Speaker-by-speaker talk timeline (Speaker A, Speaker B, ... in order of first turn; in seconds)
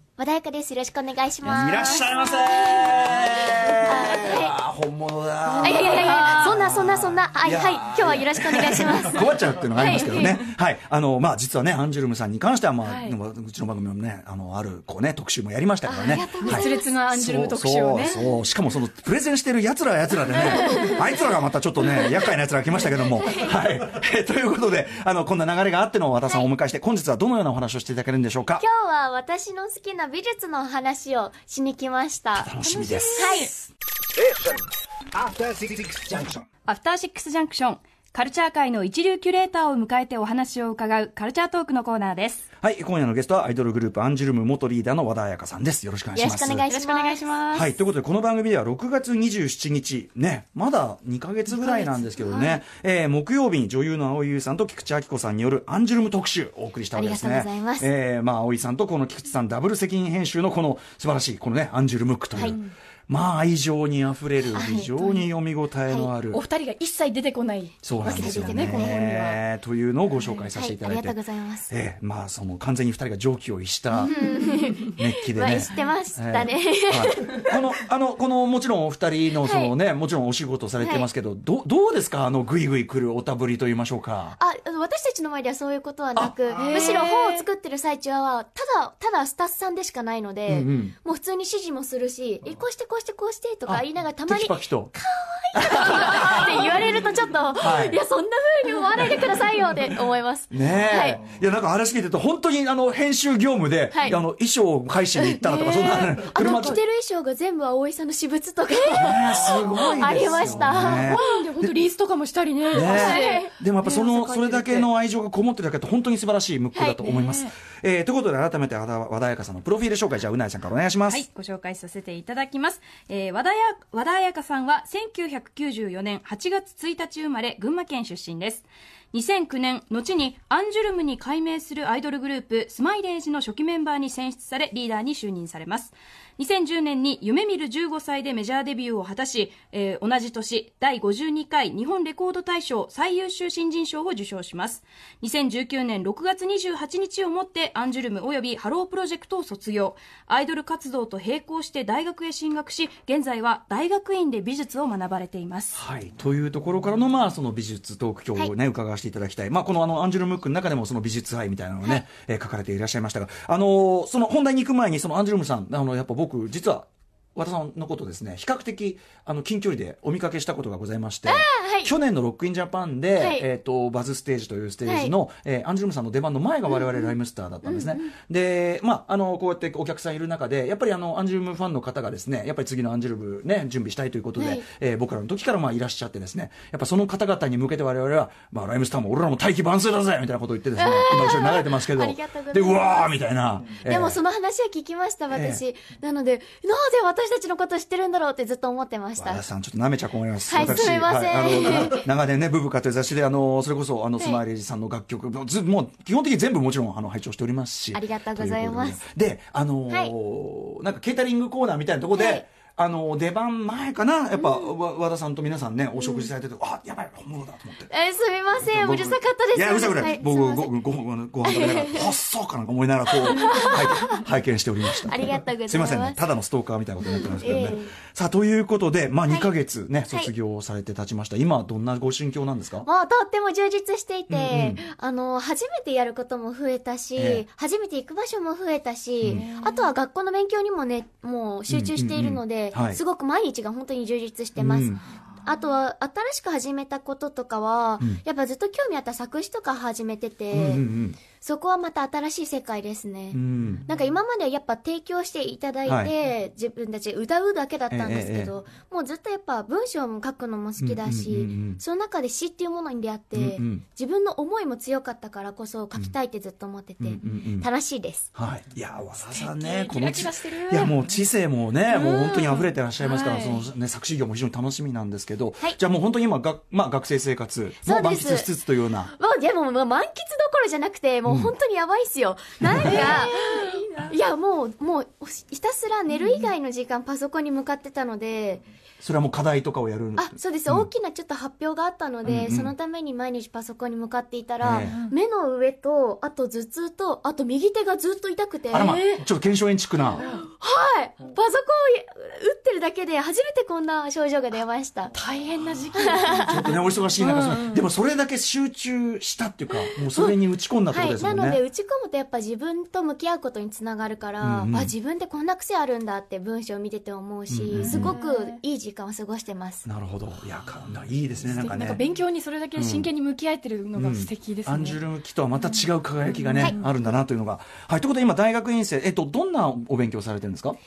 Speaker A: 0.2-4.6, 5.6-10.5, 15.8-17.0, 20.4-21.0, 22.8-23.7, 28.6-32.5, 33.1-33.5, 46.1-47.3, 56.9-57.9, 62.4-62.6, 64.5-65.2, 68.0-68.9, 70.5-71.7, 74.1-77.6, 79.4-79.7, 80.8-81.1, 84.4-101.2, 103.9-104.2, 105.6-111.2, 112.7-113.5, 116.7-117.0, 171.3-171.9, 173.2-173.5, 174.8-175.1, 176.7-177.1, 177.7-178.1, 184.4-184.7, 190.8-193.1, 193.8-199.4, 200.5-202.1, 207.9-209.1, 209.9-210.1, 212.1-212.4, 214.4-214.7, 216.0-216.3, 217.9-220.7, 221.4-222.1, 223.2-224.2, 224.9-226.2, 227.1-227.9, 232.8-268.3, 277.8-278.5, 279.1-288.6, 290.2-299.0, 300.2-305.1, 305.9-306.7, 310.1-310.4, 310.9-319.9
Speaker B: 1.4-28.7, 32.3-33.5, 42.6-46.7, 47.5-66.4, 67.8-84.4, 86.2-86.8, 90.5-91.0, 93.7-94.9, 95.5-96.6, 97.6-98.0, 100.5-106.8, 108.9-111.8, 112.7-121.2, 155.7-194.2, 195.3-195.6, 199.2-217.9, 218.6-232.9, 234.3-234.8, 237.2-237.4, 241.7-243.0, 244.6-245.0, 250.5-251.2, 253.3-253.8, 255.9-256.1, 257.9-258.5, 260.8-261.8, 263.3-263.8, 267.0-267.7, 268.4-279.1, 281.3-281.5, 282.6-283.0, 289.0-290.9, 292.2-292.7, 294.6-295.0, 298.7-300.2, 306.4-311.6, 314.4-314.9, 317.5-318.2, 319.9-322.0, 322.8-323.1, 324.0-330.8
Speaker C: 5.9-6.4, 32.7-33.5, 36.6-42.5, 46.6-47.7, 121.1-155.8
Speaker D: 12.8-13.2, 16.1-18.2, 20.4-20.9, 51.6-52.6, 66.3-69.4, 74.0-74.9, 86.6-87.5, 105.5-106.6, 109.4-114.9, 117.0-117.5, 239.3-239.9, 269.2-271.0, 271.9-273.6, 282.8-284.1, 286.1-286.4, 294.9-295.1, 298.7-299.2, 300.1-300.5, 305.1-307.9, 317.7-318.6, 321.6-325.0, 325.6-326.9
Speaker E: 34.2-36.5